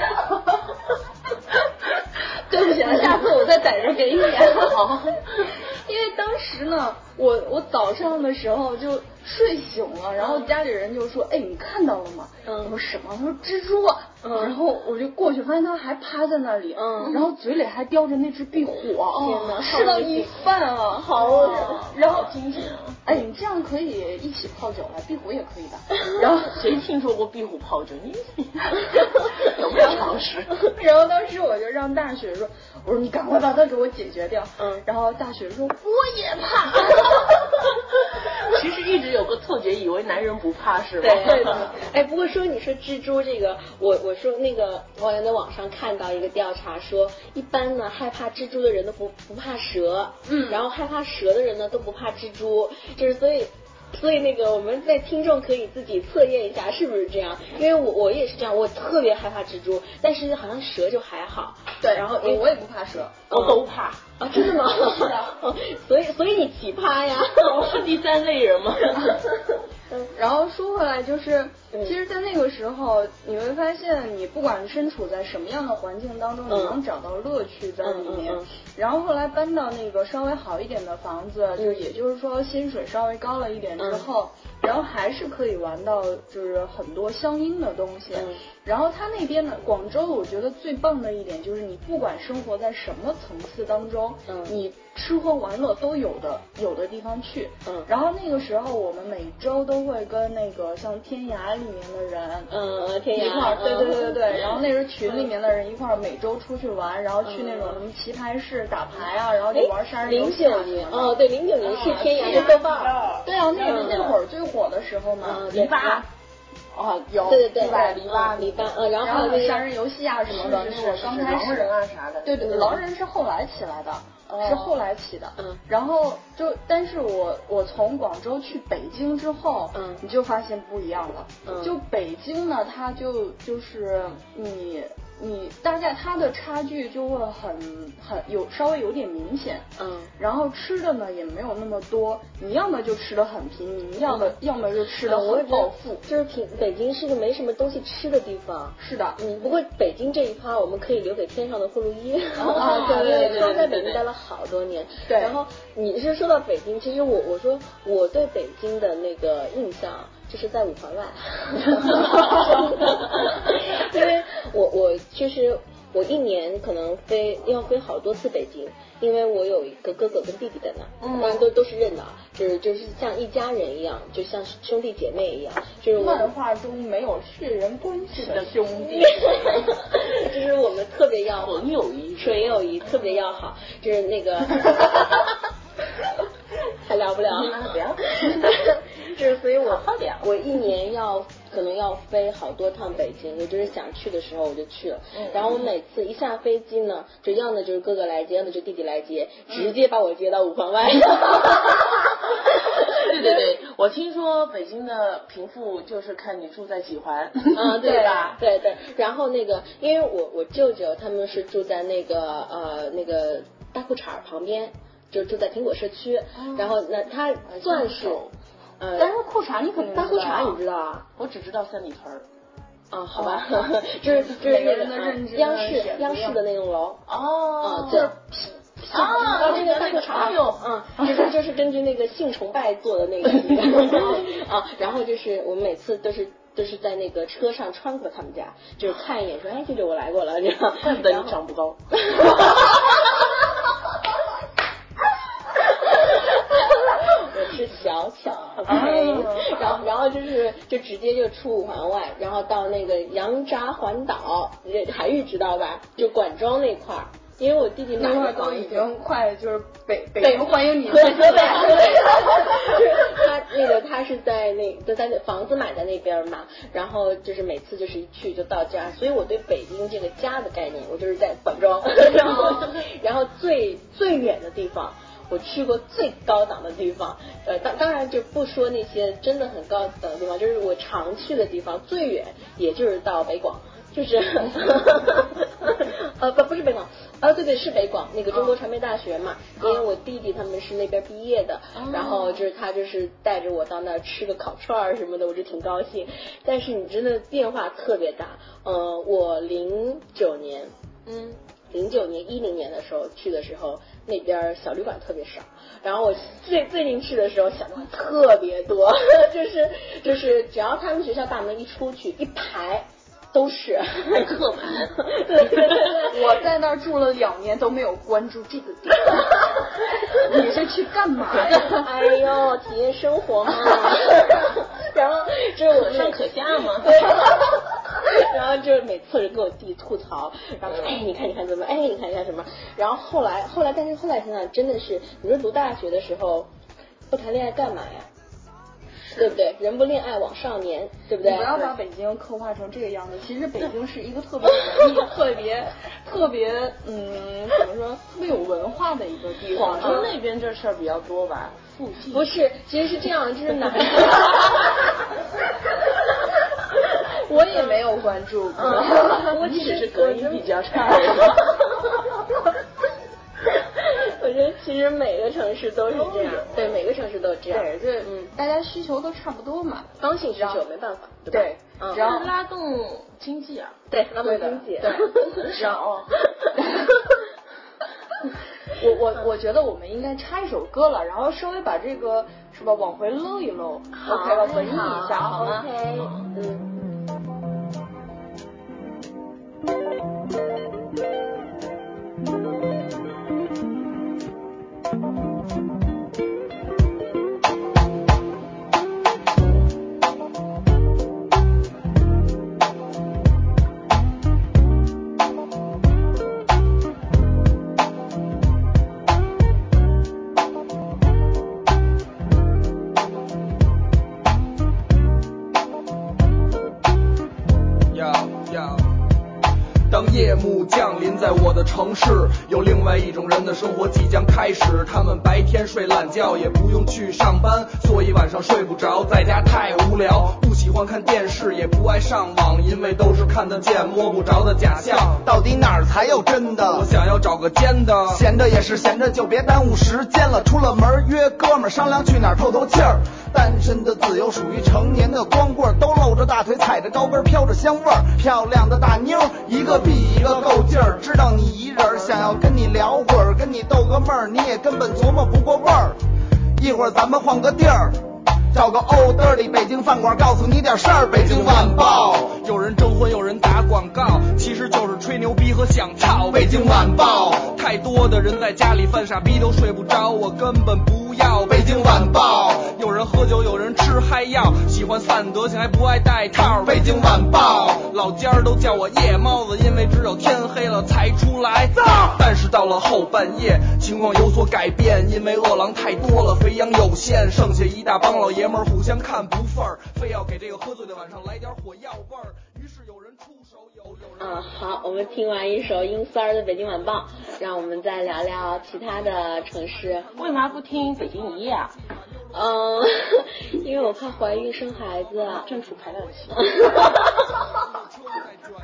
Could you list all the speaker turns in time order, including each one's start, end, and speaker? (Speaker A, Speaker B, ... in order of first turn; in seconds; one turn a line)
Speaker A: 2.5-4.9
Speaker B: 2.6-3.5
Speaker B: 4.4-5.5
Speaker A: 5.4-22.4
Speaker C: 10.2-10.5
Speaker C: 12.4-12.7
Speaker C: 14.2-14.5
Speaker C: 16.8-17.2
Speaker C: 19.1-20.3
Speaker B: 19.2-19.6
Speaker C: 21.0-21.8
Speaker B: 21.2-23.0
Speaker A: 23.0-26.8
Speaker B: 26.5-30.5
Speaker A: 30.7-37.6
Speaker C: 34.6-34.8
Speaker B: 38.5-41.7
Speaker C: 41.0-62.4
Speaker A: 50.2-50.6
Speaker A: 61.8-63.2
Speaker C: 63.3-63.6
Speaker B: 63.3-64.1
Speaker C: 64.2-67.7
Speaker B: 67.4-69.2
Speaker A: 70.1-102.5
Speaker C: 76.5-76.8
Speaker C: 77.8-78.5
Speaker C: 81.6-81.9
Speaker C: 83.8-84.1
Speaker C: 88.1-88.4
Speaker C: 94.3-94.6
Speaker C: 102.5-104.2
Speaker A: 103.1-111.2
Speaker C: 107.2-107.8
Speaker C: 109.5-113.0
Speaker B: 111.6-114.2
Speaker A: 111.8-112.6
Speaker A: 113.2-115.6
Speaker C: 113.7-114.1
Speaker C: 115.2-116.0
Speaker B: 115.4-116.1
Speaker B: 116.8-118.4
Speaker A: 117.1-146.0
Speaker C: 117.3-119.7
Speaker B: 120.3-122.5
Speaker C: 122.4-122.8
Speaker B: 124.3-124.8
Speaker C: 129.7-130.0
Speaker C: 131.4-131.8
Speaker C: 139.8-140.1
Speaker C: 145.0-176.3
Speaker A: 148.8-149.2
Speaker B: 152.4-154.0
Speaker A: 152.5-153.7
Speaker A: 155.1-155.4
Speaker B: 171.0-171.5
Speaker A: 176.0-179.7
Speaker B: 178.2-179.4
Speaker C: 178.9-181.6
Speaker B: 181.3-182.6
Speaker C: 182.2-185.2
Speaker C: 186.8-201.9
Speaker B: 187.3-188.6
Speaker B: 189.6-190.3
Speaker B: 195.1-195.7
Speaker A: 199.5-199.8
Speaker B: 203.0-208.4
Speaker C: 207.5-218.2
Speaker A: 207.8-208.3
Speaker B: 216.3-216.8
Speaker B: 217.5-218.3
Speaker C: 218.8-219.1
Speaker A: 219.0-220.6
Speaker C: 219.9-221.1
Speaker B: 221.2-222.3
Speaker C: 222.9-227.0
Speaker A: 223.2-226.4
Speaker B: 227.1-228.1
Speaker C: 227.6-228.1
Speaker A: 227.9-229.9
Speaker B: 228.9-230.7
Speaker C: 229.0-241.4
Speaker B: 233.3-234.3
Speaker B: 240.8-242.6
Speaker C: 242.2-242.4
Speaker C: 246.9-258.9
Speaker A: 248.7-249.6
Speaker A: 258.0-262.7
Speaker C: 260.2-300.7
Speaker B: 272.2-272.7
Speaker B: 288.3-288.6
Speaker B: 291.7-292.4
Speaker B: 301.1-301.4
Speaker C: 301.7-314.2
Speaker B: 314.1-315.8
Speaker C: 315.0-316.2
Speaker A: 316.1-321.8
Speaker C: 321.5-326.2
Speaker B: 325.7-327.2
Speaker C: 326.8-336.5
Speaker C: 337.1-338.1
Speaker C: 339.1-341.7
Speaker A: 341.2-350.1
Speaker B: 349.5-352.3
Speaker C: 352.1-354.7
Speaker A: 357.3-359.5
Speaker C: 358.6-360.5
Speaker B: 358.9-361.6
Speaker C: 363.7-368.3
Speaker B: 365.9-366.8
Speaker A: 367.5-370.6
Speaker C: 370.0-372.1
Speaker A: 371.3-372.3
Speaker B: 371.9-373.8
Speaker C: 373.9-375.4
Speaker A: 374.2-375.9
Speaker B: 374.9-376.1
Speaker A: 376.6-376.9
Speaker A: 378.7-385.7
Speaker C: 384.0-386.7
Speaker B: 384.4-386.3
Speaker D: 417.9-418.9
Speaker D: 419.9-435.2
Speaker E: 435.2-436.9
Speaker D: 436.6-438.3
Speaker E: 438.1-456.0
Speaker E: 456.6-462.3
Speaker D: 461.2-494.1
Speaker E: 466.4-467.2
Speaker E: 471.6-472.6
Speaker E: 476.6-477.7
Speaker C: 494.2-500.1
Speaker B: 500.2-501.8
Speaker C: 502.3-505.5
Speaker B: 505.4-506.8